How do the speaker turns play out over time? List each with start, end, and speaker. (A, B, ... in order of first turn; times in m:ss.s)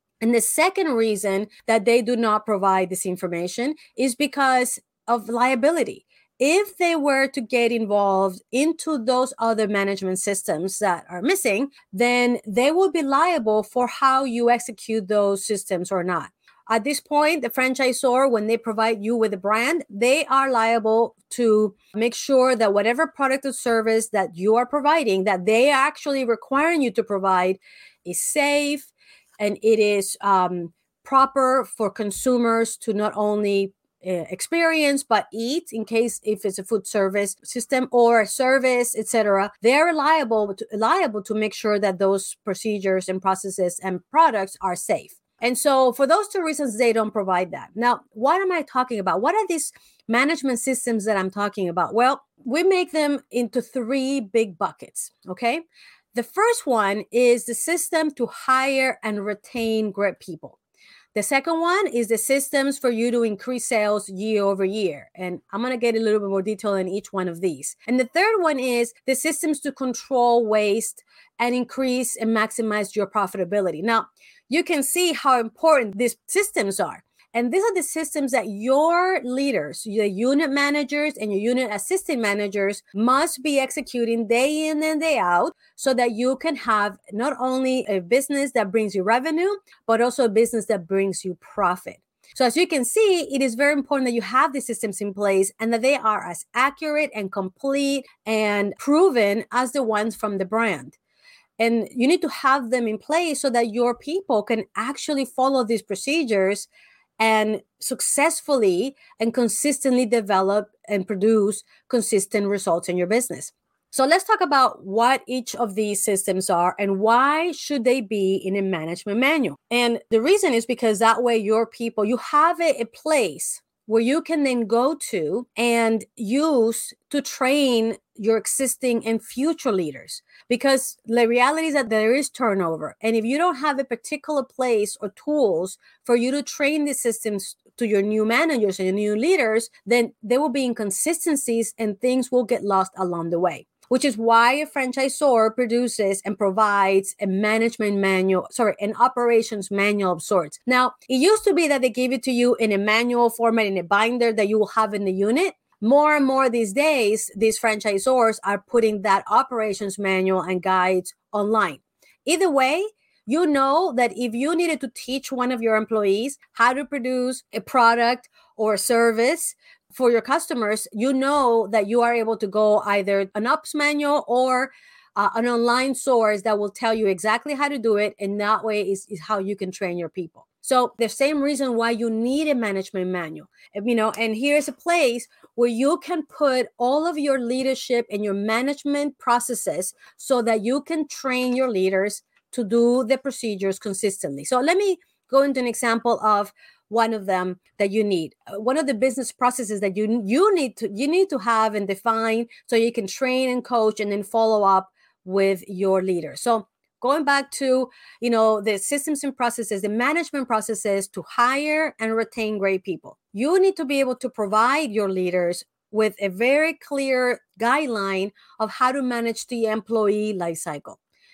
0:00.2-1:00.6 A
1:01.1-1:41.0 A
1:41.6-1:46.7 A
1:47.2-3:41.0 A